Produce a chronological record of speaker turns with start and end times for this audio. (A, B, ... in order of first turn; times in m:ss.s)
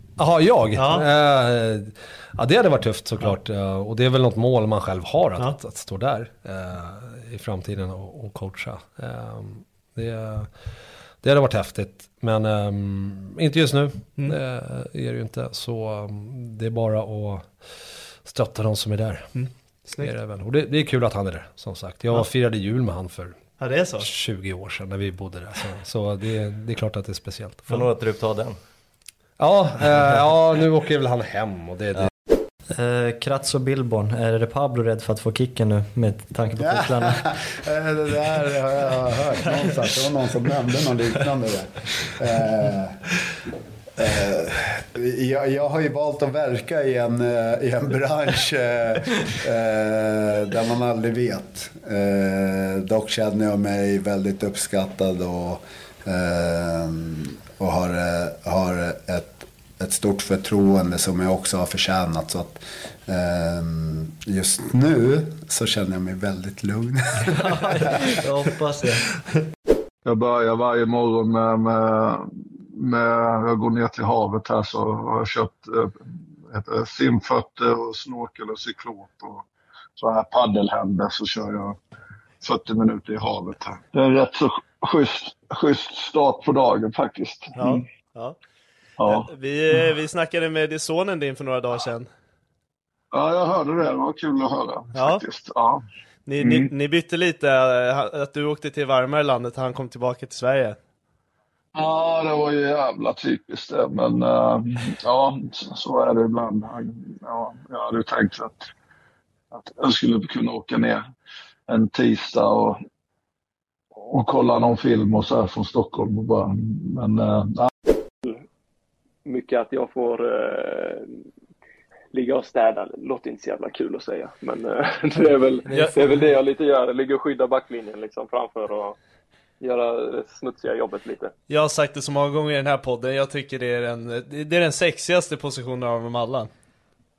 0:00.2-0:10.6 A
0:00.7-0:01.1 B
0:11.2-0:17.6 A
0:18.2-0:19.4 A
0:19.3-0:20.1 B
0:19.9-0:23.4 A
0:23.6-0:24.1 B
0:24.0-0:27.9 A
0:27.7-0:28.6 C
0:29.4-0:32.1 A
0:32.7-0:37.2 C
0:36.6-0:43.0 D
0:44.0-1:07.5 D
1:07.3-1:09.0 C
1:10.0-1:19.4 E
1:20.0-1:21.8 E
1:22.4-1:27.8 E
1:27.5-1:28.4 B
1:29.0-1:29.3 E
1:29.0-1:32.1 B
1:33.1-1:35.8 E
1:34.9-1:35.2 B
1:36.3-1:40.8 B
1:36.4-1:36.7 E
1:41.7-1:48.7 E
1:49.5-1:51.1 E
1:51.7-1:52.8 E
1:54.0-1:57.7 E
1:59.2-2:01.0 F
2:02.1-2:08.9 F
2:05.7-2:06.0 C
2:09.6-2:11.3 F
2:11.5-2:16.5 B